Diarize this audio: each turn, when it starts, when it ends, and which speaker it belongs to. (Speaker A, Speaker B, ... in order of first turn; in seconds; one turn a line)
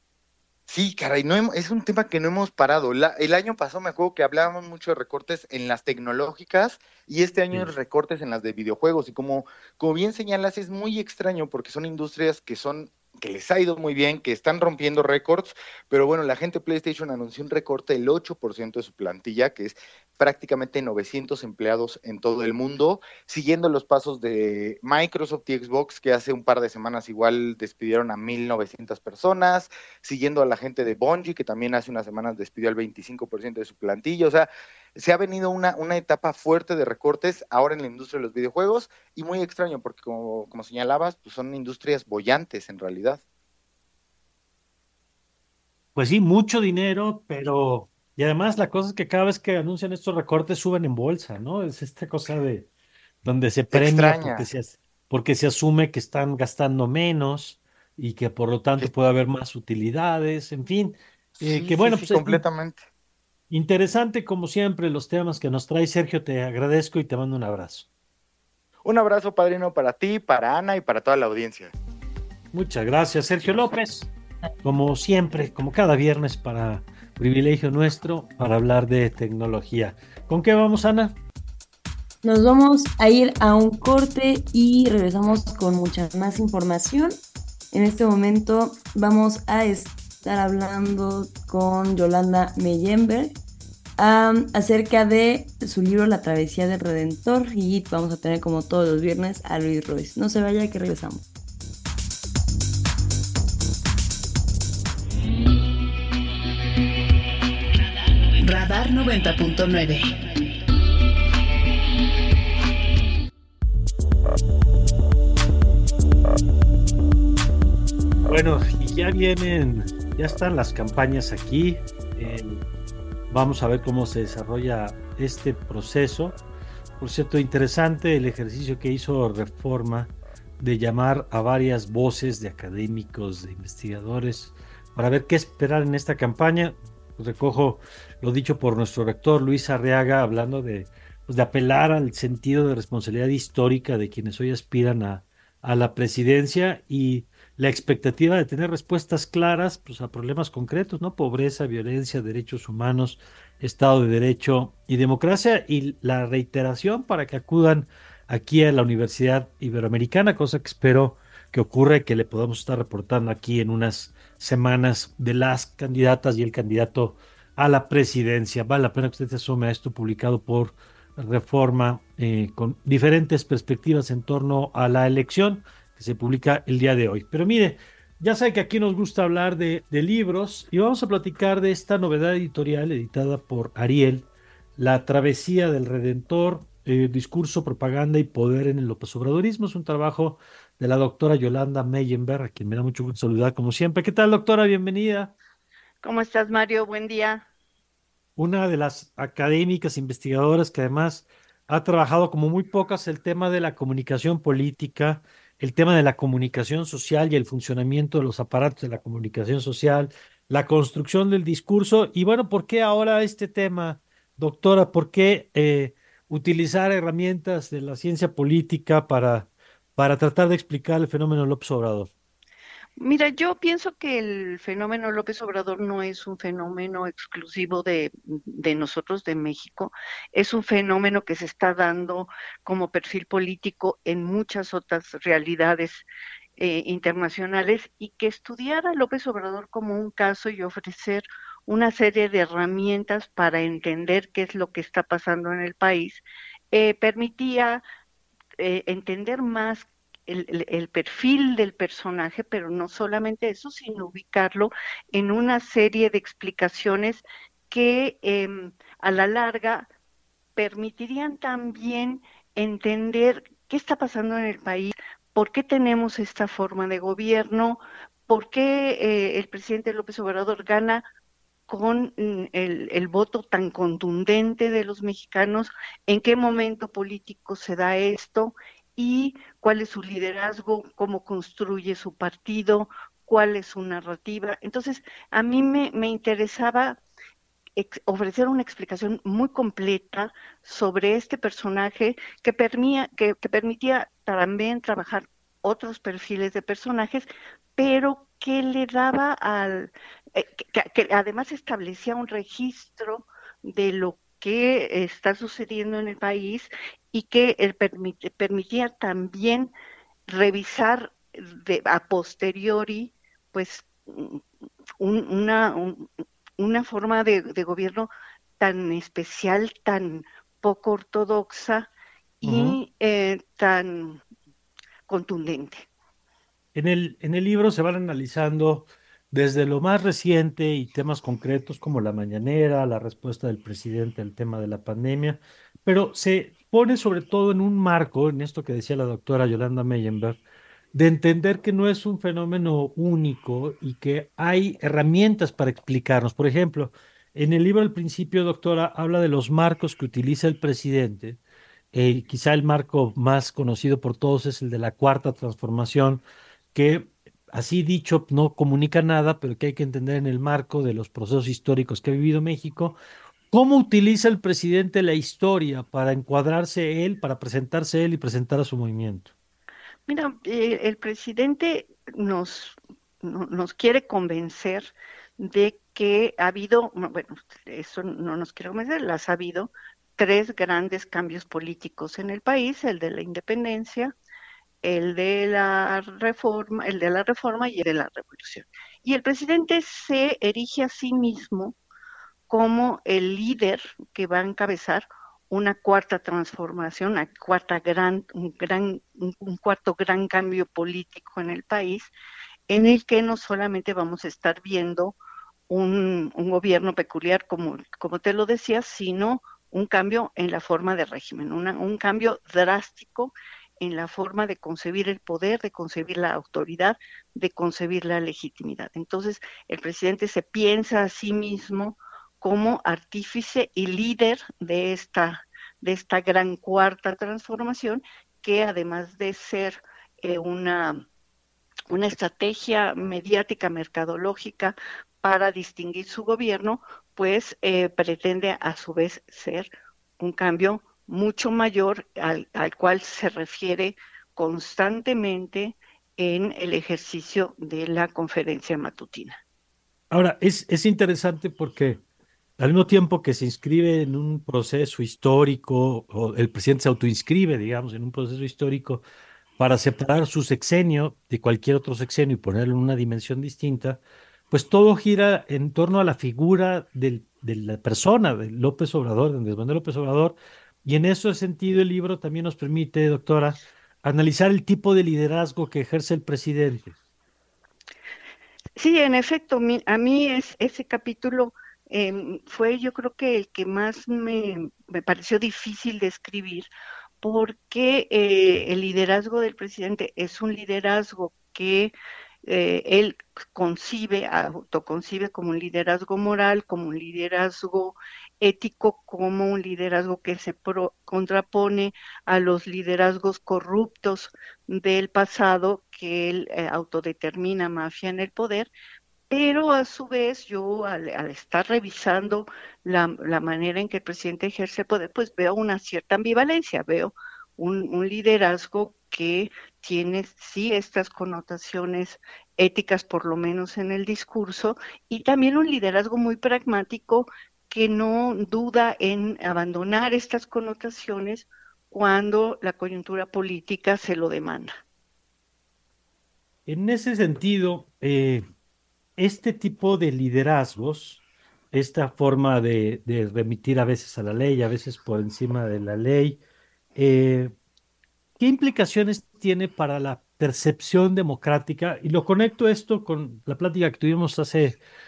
Speaker A: 0.7-43.2
Speaker B: 46.0-52.7
Speaker B: 53.2-62.4
Speaker A: 53.7-54.5
Speaker A: 61.4-62.8
Speaker B: 63.5-67.9
Speaker A: 68.8-71.7
Speaker B: 72.5-74.1
Speaker A: 73.4-73.7
Speaker B: 74.6-81.2
Speaker C: 82.2-87.2
Speaker C: 87.7-93.3
Speaker C: 94.0-101.2
Speaker D: 108.3-110.5
Speaker B: 118.2-122.6
Speaker B: 123.3-126.4
Speaker B: 127.0-195.3
Speaker E: 196.0-197.4
Speaker B: 198.4-222.1
Speaker E: 223.0-236.0
Speaker E: 236.6-247.8
Speaker E: 248.6-259.9
Speaker E: 260.6-271.0
Speaker E: 271.7-287.0
Speaker E: 287.8-309.7
Speaker E: 310.3-314.4
Speaker E: 315.0-321.9
Speaker E: 322.4-324.2
Speaker B: 322.4-322.8
Speaker E: 325.1-325.9
Speaker B: 326.7-340.4
Speaker B: 340.9-351.4
Speaker B: 351.9-356.2
Speaker B: 356.7-363.0
Speaker B: 363.5-369.3
Speaker E: 370.1-384.1
Speaker E: 384.8-391.8
Speaker E: 392.5-402.1
Speaker E: 402.7-405.2
Speaker E: 405.7-431.0
Speaker E: 431.9-449.4
Speaker B: 450.1-452.0
Speaker B: 452.6-459.0
Speaker B: 459.6-476.9
Speaker E: 478.8-486.7
Speaker E: 487.2-491.9
Speaker E: 492.4-508.7
Speaker E: 509.3-534.7
Speaker B: 536.7-538.4
Speaker B: 539.2-541.2
Speaker B: 541.7-546.4
Speaker B: 547.0-547.5
Speaker B: 548.4-554.8